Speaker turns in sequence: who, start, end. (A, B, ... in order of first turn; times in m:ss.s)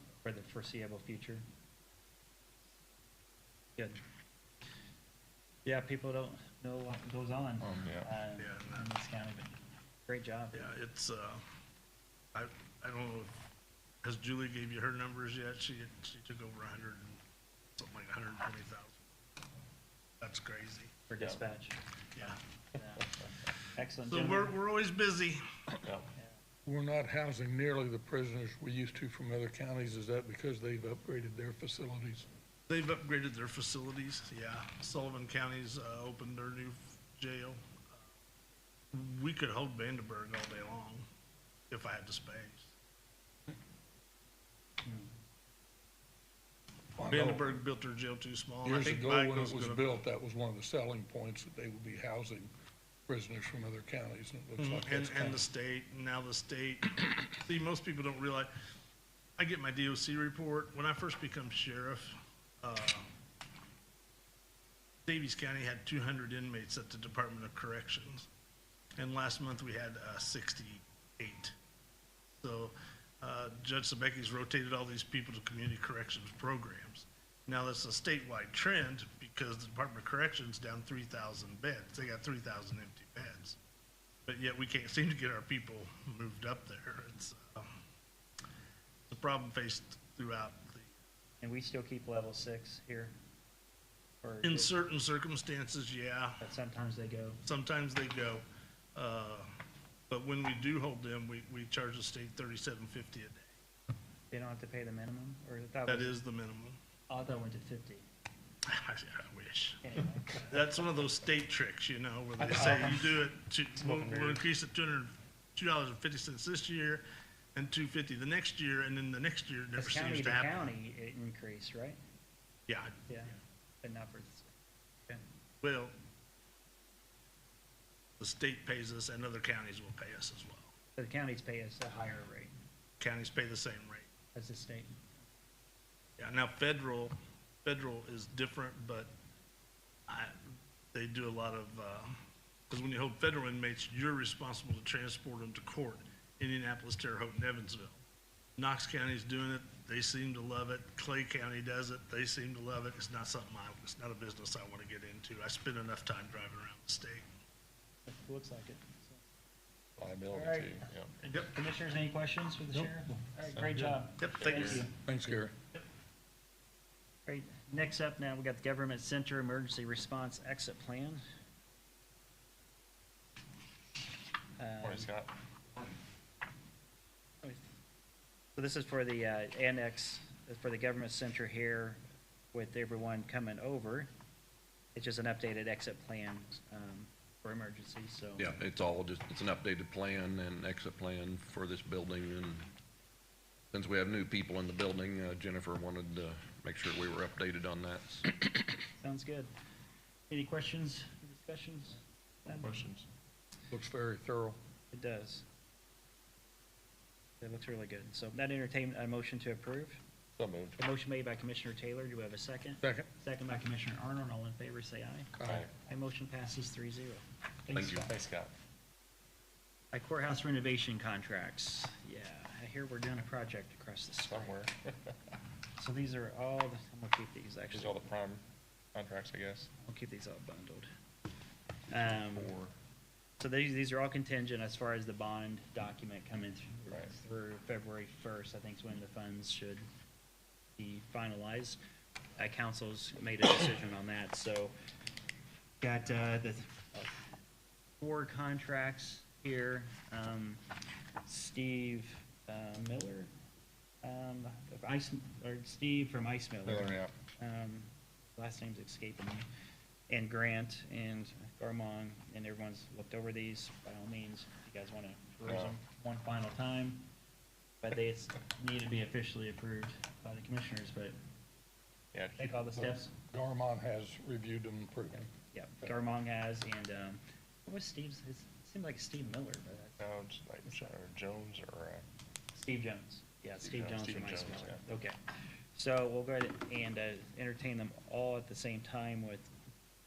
0:00.2-0:01.4 A
0:05.6-0:10.7 A
0:07.6-0:08.1 B
0:08.4-0:08.9 C
0:10.5-0:11.4 C
0:12.3-0:13.4 C
0:14.0-0:17.2 C
0:17.8-0:19.1 C
0:20.2-0:20.9 C
0:21.1-0:23.1 A
0:23.7-0:24.6 A
0:24.1-0:25.4 C
0:26.6-0:32.3 D
0:32.7-0:38.0 C
0:38.9-0:41.0 C
0:41.7-0:42.7 C
0:47.0-0:47.6 D
0:47.1-0:50.0 C
0:48.6-0:52.5 D
0:53.1-0:55.4 D
0:54.6-0:58.5 C
0:59.4-1:03.1 C
1:05.0-1:08.3 C
1:09.0-1:11.6 C
1:12.3-1:23.6 C
1:24.2-1:27.7 C
1:29.1-1:30.9 C
1:31.4-1:33.1 A
1:34.2-1:34.8 A
1:34.4-1:36.4 C
1:36.4-1:37.4 A
1:37.4-1:38.4 C
1:38.9-1:39.5 C
1:40.1-1:43.5 C
1:44.3-1:46.2 A
1:45.9-1:46.8 C
1:47.1-1:48.0 A
1:48.6-2:00.7 C
1:49.8-1:50.6 A
1:52.5-1:53.0 A
1:54.0-1:54.3 B
1:59.7-2:02.0 A
2:02.7-2:03.0 C
2:03.1-2:04.5 A
2:05.6-2:05.9 C
2:08.2-2:10.7 C
2:11.0-2:12.5 A
2:13.0-2:14.1 C
2:14.3-2:15.1 A
2:16.2-2:19.1 C
2:20.1-2:28.0 C
2:28.6-2:37.2 C
2:38.0-2:39.2 A
2:40.0-2:41.1 B
2:40.3-2:45.0 A
2:42.7-2:43.0 D
2:43.6-2:44.0 D
2:44.2-2:44.8 C
2:44.4-2:44.9 B
2:45.0-2:45.5 D
2:47.2-2:51.2 A
2:54.6-2:55.1 A
2:54.8-2:55.3 B
2:58.6-3:02.0 A
3:02.5-3:04.1 A
3:04.9-3:08.5 A
3:08.4-3:12.7 E
3:13.7-3:18.3 E
3:19.0-3:19.5 A
3:20.3-3:22.7 A
3:22.5-3:23.1 B
3:23.7-3:24.6 D
3:24.9-3:25.4 A
3:27.4-3:30.0 A
3:30.4-3:30.8 B
3:30.8-3:35.3 A
3:32.8-3:33.1 D
3:35.4-3:35.6 D
3:35.4-3:35.7 B
3:35.8-3:38.1 A
3:37.7-3:38.5 B
3:37.7-3:38.1 E
3:39.9-3:44.7 A
3:44.2-3:45.2 B
3:45.8-3:48.0 A
3:47.7-3:49.7 B
3:49.8-3:50.9 A
3:51.9-3:52.5 A
3:51.9-3:52.7 B
3:53.4-3:59.8 A
3:56.9-3:57.1 B
4:00.8-4:01.8 A
4:02.4-4:04.7 A
4:05.8-4:07.1 A
4:08.0-4:10.6 A
4:11.2-4:13.3 A
4:14.0-4:19.4 A
4:16.6-4:17.1 B
4:20.1-4:27.0 A
4:25.4-4:25.8 B
4:27.8-4:31.1 A
4:32.1-4:32.7 B
4:32.4-4:33.1 A
4:33.3-4:35.3 D
4:35.1-4:40.0 A
4:40.0-4:42.0 B
4:40.6-4:40.9 A
4:42.5-4:45.2 A
4:43.6-4:44.8 B
4:45.7-4:49.5 A